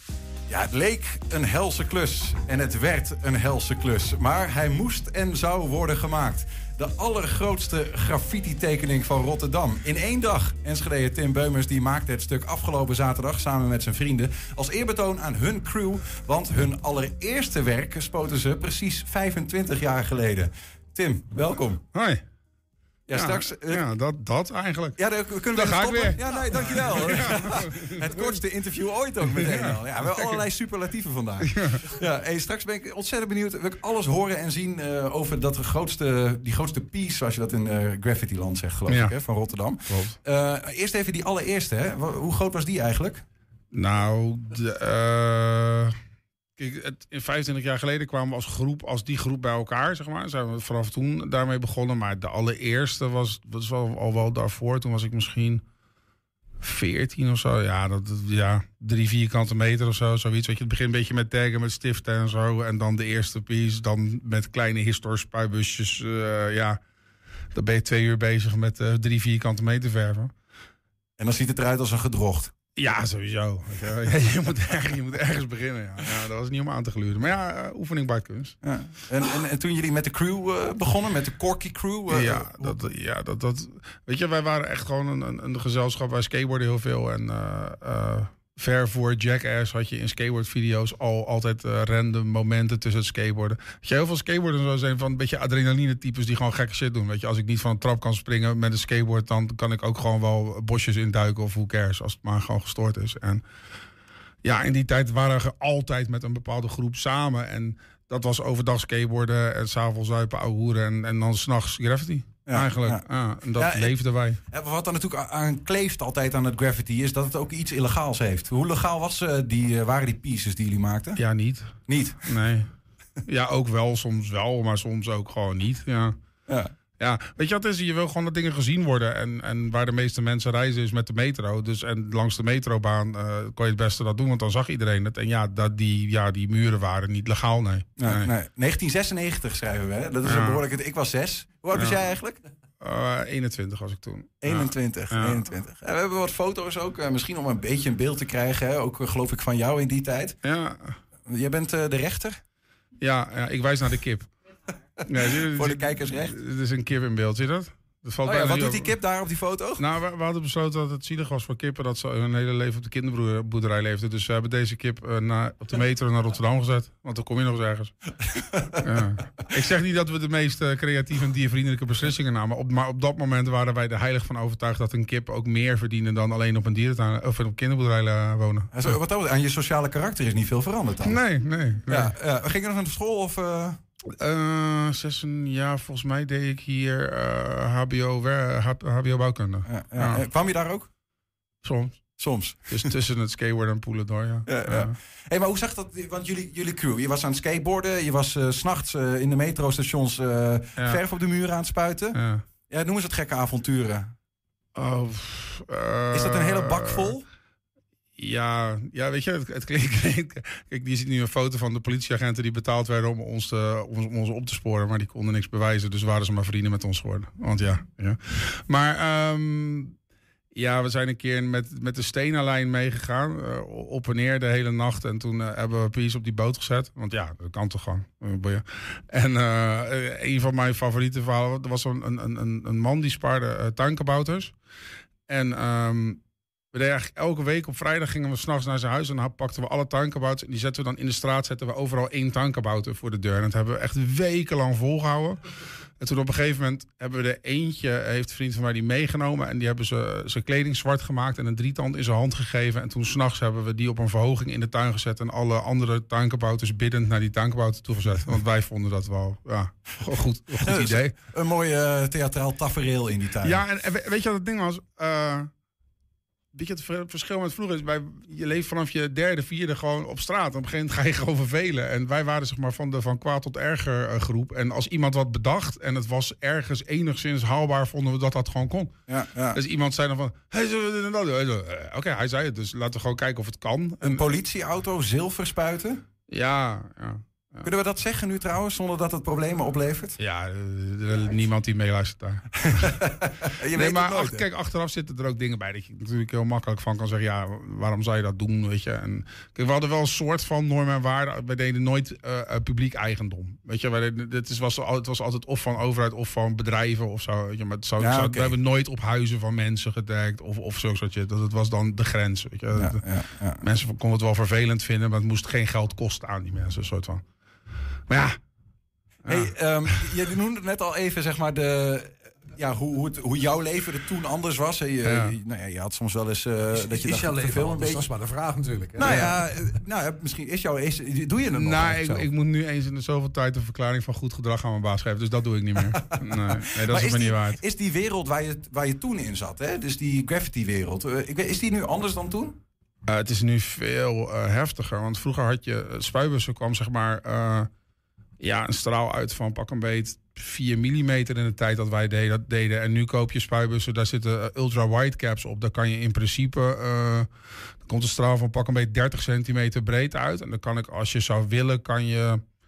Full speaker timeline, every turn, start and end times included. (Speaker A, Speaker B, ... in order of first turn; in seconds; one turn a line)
Speaker A: 0.5-21.8
Speaker B: 21.9-22.2
Speaker A: 23.1-23.8
Speaker B: 23.1-28.4
Speaker A: 25.0-43.2
Speaker B: 29.2-30.4
Speaker B: 31.5-31.9
Speaker B: 38.9-39.1
Speaker B: 39.9-40.1
Speaker B: 43.7-46.0
Speaker B: 46.6-55.6
Speaker B: 56.6-66.8
Speaker B: 67.5-70.3
Speaker A: 71.2-72.5
Speaker B: 72.8-78.6
Speaker A: 78.6-82.7
Speaker B: 82.1-103.4
Speaker B: 104.4-114.4
Speaker A: 112.5-121.2
Speaker B: 121.2-122.7
Speaker A: 121.8-122.2
Speaker B: 123.3-126.2
Speaker B: 127.0-138.3
Speaker A: 138.0-142.4
Speaker B: 140.2-140.6
Speaker B: 141.7-142.1
Speaker B: 142.8-145.4
Speaker A: 144.4-150.3
Speaker B: 150.4-151.0
Speaker A: 151.3-152.4
Speaker B: 153.0-154.3
Speaker B: 155.1-158.9
Speaker A: 155.2-156.3
Speaker A: 158.2-159.8
Speaker B: 159.8-168.1
Speaker B: 168.8-179.0
Speaker A: 178.7-181.2
Speaker B: 181.0-182.1
Speaker A: 181.9-183.8
Speaker B: 184.2-190.2
Speaker A: 189.7-190.9
Speaker B: 191.6-194.9
Speaker A: 192.2-192.9
Speaker A: 194.5-202.2
Speaker B: 202.1-202.4
Speaker A: 202.7-204.1
Speaker B: 204.7-207.2
Speaker A: 206.1-207.2
Speaker B: 208.2-219.9
Speaker B: 220.5-234.6
Speaker B: 235.3-236.2
Speaker B: 236.7-245.4
Speaker B: 246.0-261.1
Speaker A: 260.5-263.6
Speaker B: 263.4-265.5
Speaker B: 266.5-278.9
Speaker A: 279.1-279.6
Speaker B: 279.5-284.2
Speaker A: 284.0-286.0
Speaker B: 286.3-287.6
Speaker A: 287.6-290.2
Speaker B: 290.2-293.1
Speaker A: 292.6-294.4
Speaker B: 293.7-317.2
Speaker A: 308.0-308.5
Speaker A: 312.8-313.6
Speaker B: 318.1-318.4
Speaker B: 319.2-320.1
Speaker A: 319.3-328.0
Speaker B: 325.0-325.3
Speaker C: 326.7-329.3
Speaker A: 329.0-332.3
Speaker B: 329.0-329.3
Speaker B: 331.6-337.6
Speaker A: 336.4-342.6
Speaker B: 343.1-347.7
Speaker B: 348.4-357.3
Speaker B: 357.8-362.4